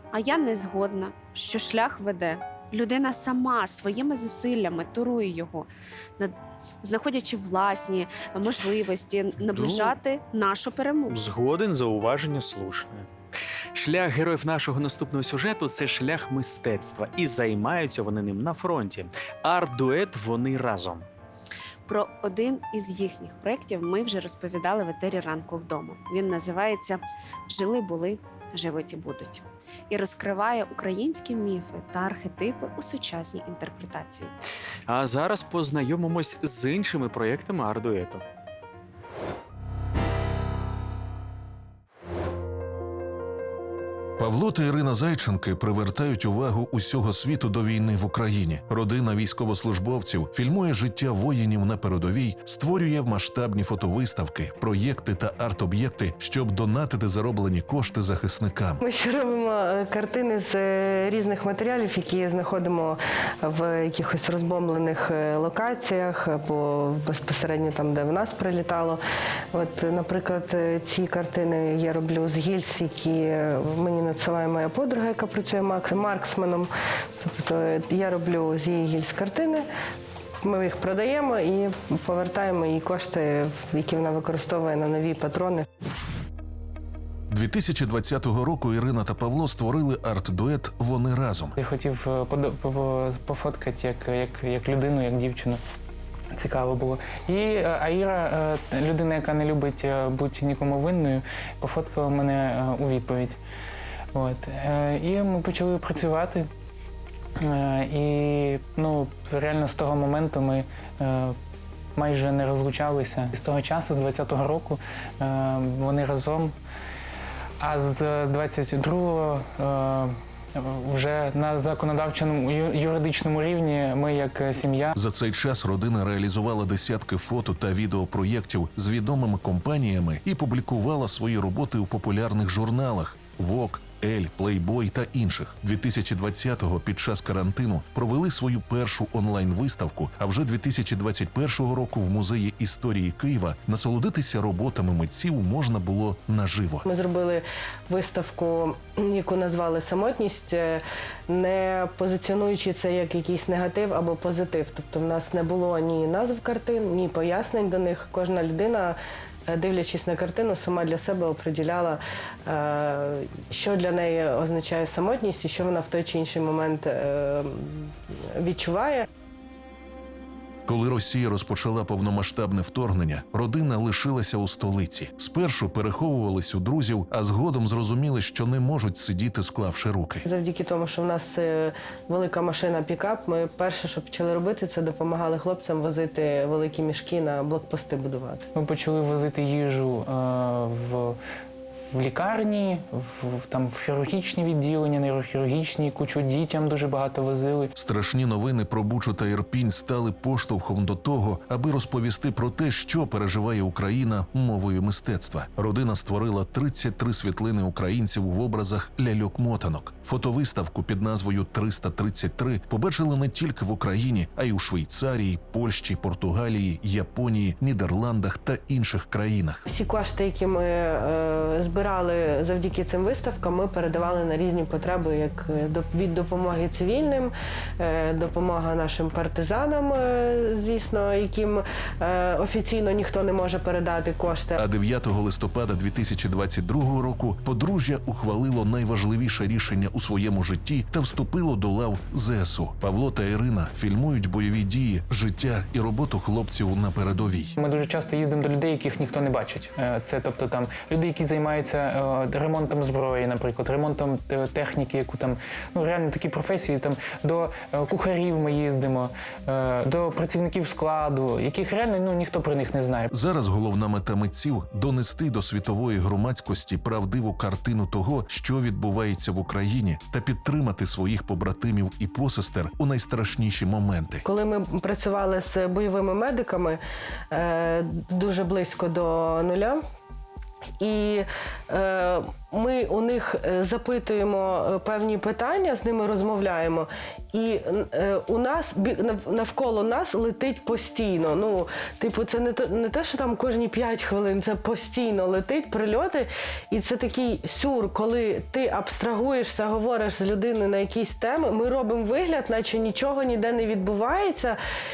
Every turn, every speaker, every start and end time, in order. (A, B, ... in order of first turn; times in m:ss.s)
0:00.1-0:11.3 A
0:09.5-0:09.9 B
0:11.1-0:13.1 B
0:13.7-0:21.1 B
0:21.9-0:34.3 A
0:34.9-0:38.2 B
0:44.2-0:58.8 C
0:58.8-1:09.0 D
1:09.5-1:16.7 D
1:17.2-1:19.6 D
1:20.4-1:25.6 D
1:27.3-1:31.6 C
1:31.6-1:35.6 E
1:36.3-1:43.4 E
1:44.1-1:46.5 E
1:47.4-1:51.4 E
1:52.0-1:56.5 E
1:57.6-2:05.0 E
2:05.0-2:26.8 C
2:26.8-2:39.0 D
2:39.5-2:49.0 D
2:50.7-3:00.2 C
3:00.2-3:08.4 D
3:08.5-3:11.2 E
3:11.9-3:17.7 E
3:17.8-3:39.6 C
3:39.7-3:54.6 D
3:54.6-4:07.5 C
4:07.6-4:23.1 E
4:23.1-4:34.2 C
4:34.2-4:36.8 D
4:37.3-4:39.8 D
4:40.8-5:04.6 D